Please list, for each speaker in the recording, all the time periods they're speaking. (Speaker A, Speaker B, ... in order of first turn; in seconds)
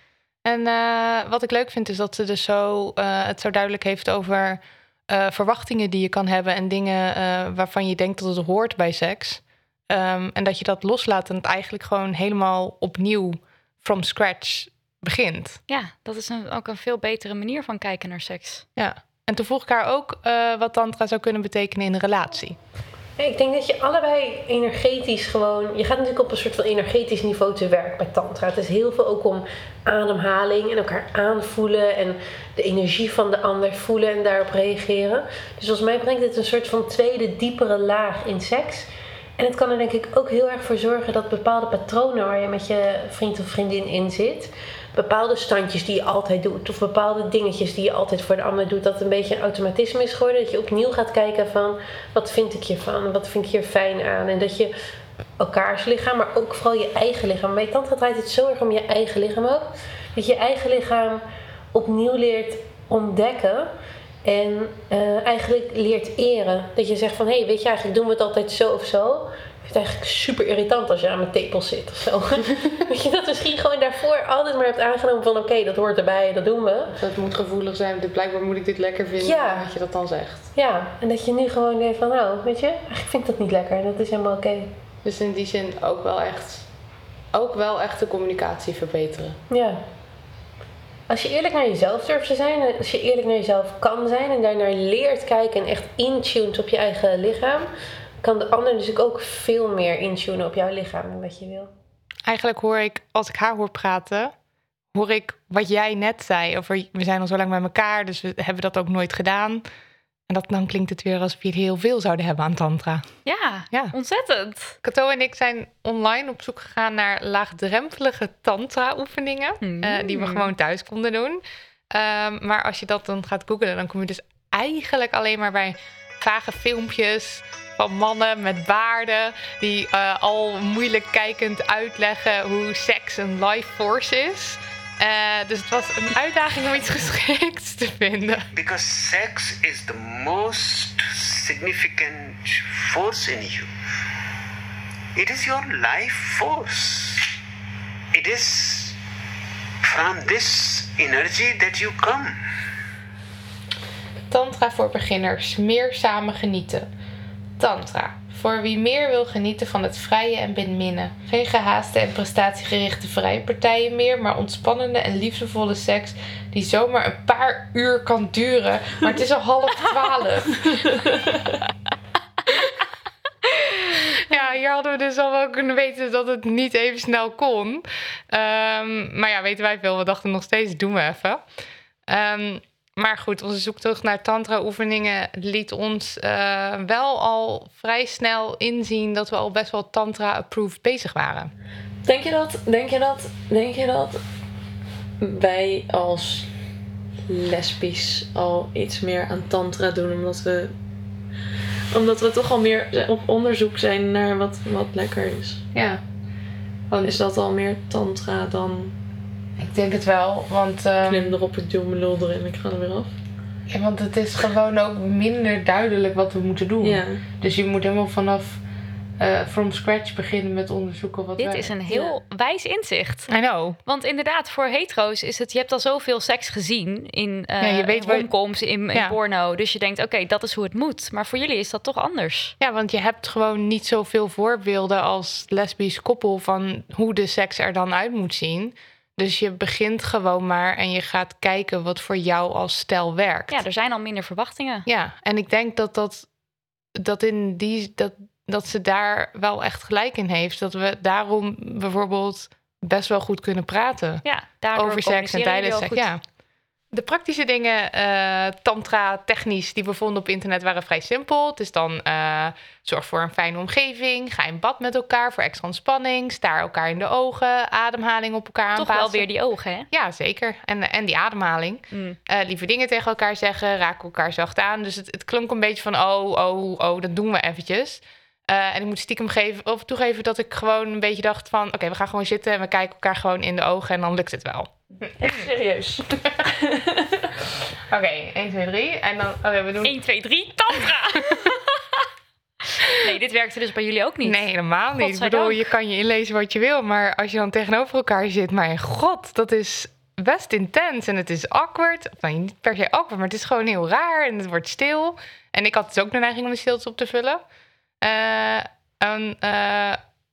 Speaker A: 0.5-15.6, 18.8-22.6, 77.0-80.5, 85.0-86.6, 87.3-89.4, 102.2-104.3, 104.9-109.6, 110.3-113.0, 114.8-138.5, 154.3-156.9, 157.6-170.9, 174.3-181.4, 182.1-191.5, 205.7-206.0, 209.6-211.4, 213.7-218.6, 219.2-222.1, 223.3-223.8, 227.6-228.3, 232.6-243.5, 244.9-246.2, 247.0-254.2, 254.8-256.2, 256.9-269.2, 269.9-284.7, 287.9-289.9, 294.2-307.4, 308.0-310.0
Speaker B: 15.7-18.6, 113.2-114.8, 119.6-120.5, 221.4-223.3, 223.8-232.5, 243.5-244.8, 254.2-256.1, 268.8-269.9, 271.9-272.2, 285.2-285.5, 289.8-292.0, 292.8-295.7
Speaker C: 23.2-38.9, 39.4-54.7, 55.4-61.2, 61.7-63.7, 64.2-76.9, 79.2-79.7, 80.5-84.7, 89.5-89.8, 91.1-97.7, 98.2-101.7
Speaker D: 138.5-143.7, 145.2-147.2, 148.1-149.0, 149.8-152.4
Speaker E: 170.8-171.2, 192.0-194.2, 195.2-196.5, 197.3-200.7, 201.9-205.7, 206.9-208.9, 211.0-213.1, 216.8-217.2, 285.2-286.9